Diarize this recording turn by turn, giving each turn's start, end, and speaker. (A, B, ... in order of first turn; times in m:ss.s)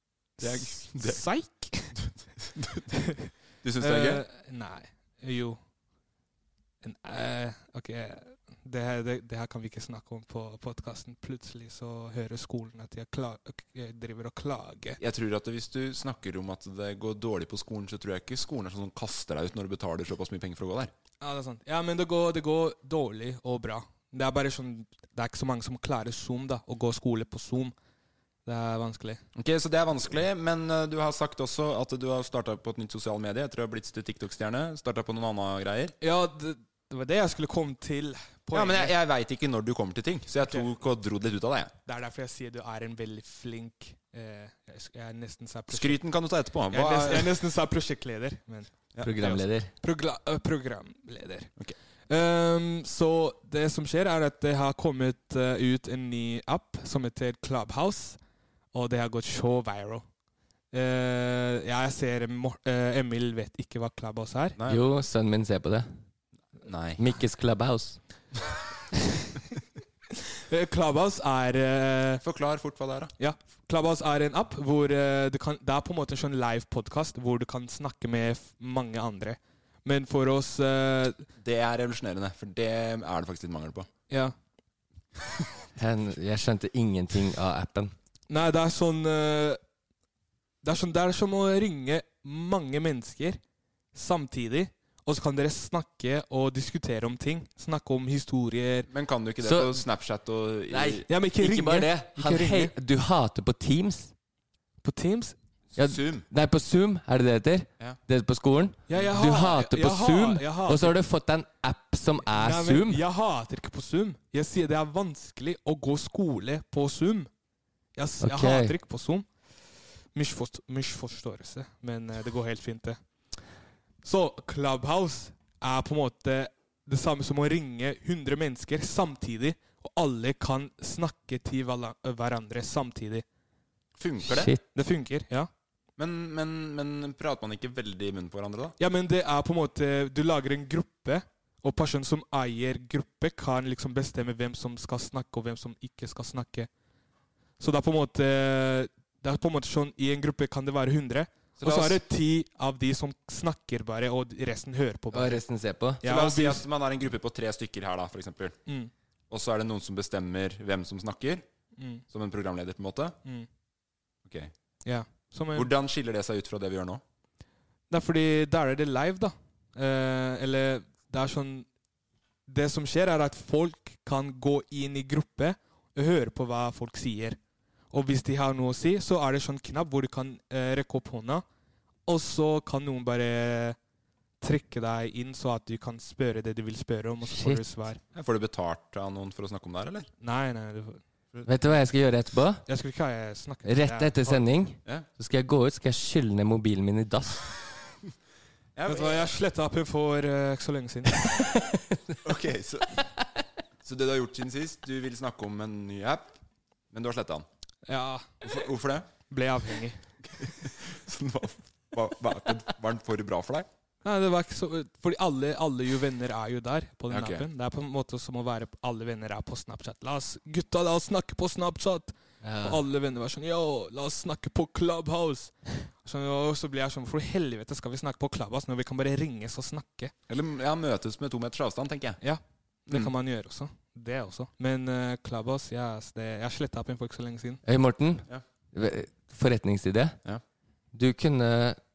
0:00.4-0:02.0 A
0:00.4-0:01.2 B
0:01.9-0:02.9 B
0:03.6-0:04.2 B
0:03.8-0:05.6 A
0:06.8-0:15.0 A
0:15.0-0:20.9 B
0:21.2-0:27.7 A
0:28.4-0:29.2 A
0:29.4-0:35.9 B
0:36.0-0:38.9 A
0:38.5-0:41.7 B
0:41.9-0:46.0 A
0:45.7-0:47.3 B
0:46.7-0:51.5 A
0:49.0-0:49.7 C
0:52.1-0:58.2 A
0:58.7-1:00.0 A
1:00.7-1:04.6 A
1:04.6-1:04.8 B
1:04.7-1:05.9 C
1:06.6-1:07.0 B
1:07.0-1:08.0 C
1:10.5-1:12.2 A
1:12.2-1:13.1 B
1:13.2-1:21.3 A
1:21.4-1:23.9 B
1:25.8-1:27.9 C
1:28.3-1:29.6 A
1:30.6-1:33.4 A
1:33.9-1:38.9 A
1:38.9-1:41.0 B
1:39.4-1:39.8 C
1:40.7-1:44.1 C
1:41.1-1:42.7 A
1:44.8-1:45.4 A
1:45.8-1:46.2 B
1:45.8-1:53.0 C
1:48.9-1:51.0 A
1:52.3-1:57.3 A
1:58.0-1:59.3 A
1:58.2-1:58.7 C
2:00.1-2:03.0 A
2:04.0-2:13.2 A
2:14.0-2:14.5 B
2:14.3-2:14.6 C
2:14.7-2:15.5 A
2:16.0-2:18.8 B
2:18.8-2:26.7 A
2:27.6-2:35.4 A
2:31.6-2:32.0 B
2:35.1-2:36.0 C
2:36.0-2:36.6 A
2:36.0-2:38.6 B
2:38.6-2:38.9 A
2:39.3-2:41.4 B
2:41.8-2:42.0 A
2:42.1-2:43.2 B
2:44.2-2:44.5 B
2:44.8-2:45.7 A
2:45.5-2:47.0 B
2:47.9-2:51.7 A
2:52.5-2:57.4 A
2:57.9-3:01.4 A
3:02.1-3:03.8 A
3:04.4-3:08.0 A
3:07.3-3:07.6 C
3:08.1-3:10.1 B
3:10.2-3:11.0 A
3:11.4-3:12.6 C
3:12.7-3:14.4 A
3:13.6-3:17.4 C
3:18.8-3:19.3 B
3:18.9-3:21.3 A
3:21.5-3:22.2 C
3:22.2-3:23.0 B
3:23.8-3:26.4 B
3:26.9-3:27.4 B
3:27.9-3:28.4 A
3:28.4-3:29.1 B
3:29.3-3:30.0 A
3:30.4-3:33.7 B
3:34.0-3:50.1 A
3:37.1-3:37.5 B
3:42.4-3:42.8 C
3:50.3-3:52.2 B
3:52.2-3:57.6 A
3:57.6-4:00.2 C
4:00.9-4:01.8 C